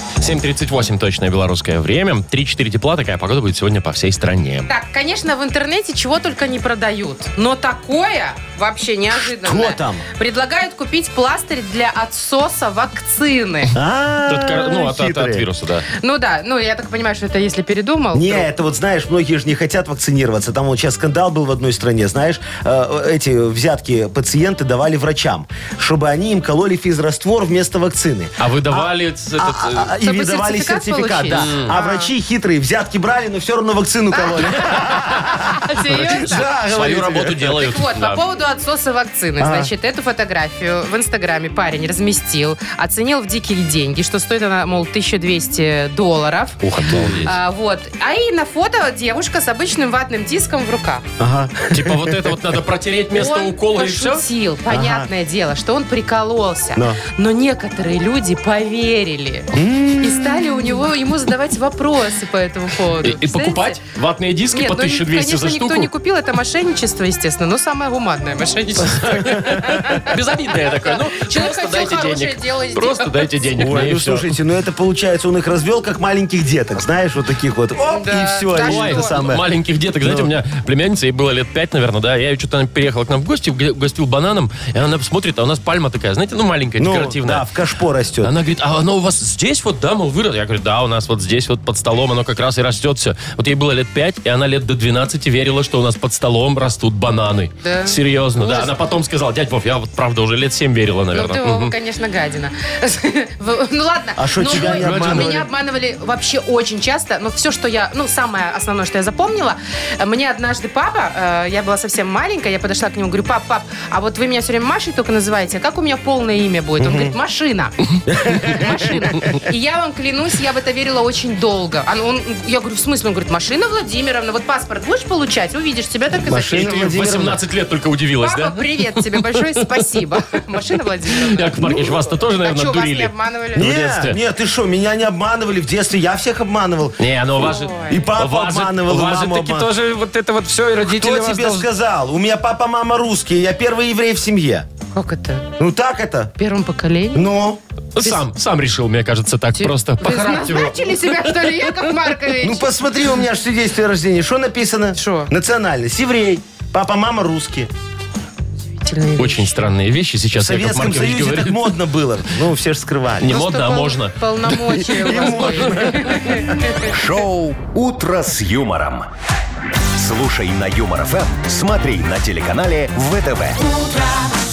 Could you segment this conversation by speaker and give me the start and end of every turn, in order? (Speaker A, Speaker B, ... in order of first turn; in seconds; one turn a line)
Speaker A: 0.2-4.7
Speaker B: 4.7-13.7
Speaker C: 9.1-10.0
Speaker C: 13.7-15.4
Speaker A: 14.2-15.8
Speaker B: 15.9-18.5
Speaker C: 18.1-37.6
Speaker A: 28.4-29.9
Speaker B: 30.0-32.1
Speaker A: 31.3-31.7
Speaker B: 34.1-36.5
Speaker A: 36.0-38.2
Speaker B: 37.5-46.6
Speaker C: 39.4-39.7
Speaker A: 46.8-47.4
Speaker C: 46.9-47.1
Speaker B: 47.2-51.0
Speaker C: 51.2-52.4
Speaker A: 51.7-54.2
Speaker B: 53.1-63.8
Speaker C: 54.7-55.1
Speaker C: 56.7-57.0
Speaker C: 59.5-60.8
Speaker A: 63.0-65.9
Speaker B: 64.5-73.7
Speaker A: 68.8-74.3
Speaker C: 69.2-69.5
Speaker C: 73.6-79.5
Speaker B: 77.9-79.2
Speaker A: 78.6-87.5
Speaker C: 80.0-80.3
Speaker C: 86.8-88.3
Speaker A: 88.2-101.7
Speaker B: 97.6-98.7
Speaker B: 101.1-126.9
Speaker C: 104.2-105.5
Speaker A: 104.5-105.4
Speaker C: 116.8-117.1
Speaker C: 118.1-119.2
Speaker C: 126.2-127.4
Speaker A: 126.5-129.8
Speaker B: 128.2-131.8
Speaker A: 131.1-134.2
Speaker C: 131.6-131.9
Speaker B: 132.4-133.7
Speaker C: 133.5-137.0
Speaker A: 137.0-141.7
Speaker B: 137.4-138.0
Speaker C: 137.9-139.7
Speaker C: 140.8-144.7
Speaker B: 144.9-145.5
Speaker C: 145.6-146.3
Speaker B: 146.4-147.3
Speaker C: 147.1-147.6
Speaker A: 147.9-151.8
Speaker B: 149.5-152.7
Speaker C: 152.4-157.7
Speaker B: 154.9-155.3
Speaker B: 158.8-159.5
Speaker A: 159.2-161.7
Speaker C: 160.3-163.4
Speaker A: 163.2-165.6
Speaker B: 163.2-166.9
Speaker C: 164.9-166.5
Speaker D: 166.9-169.1
Speaker D: 169.9-173.6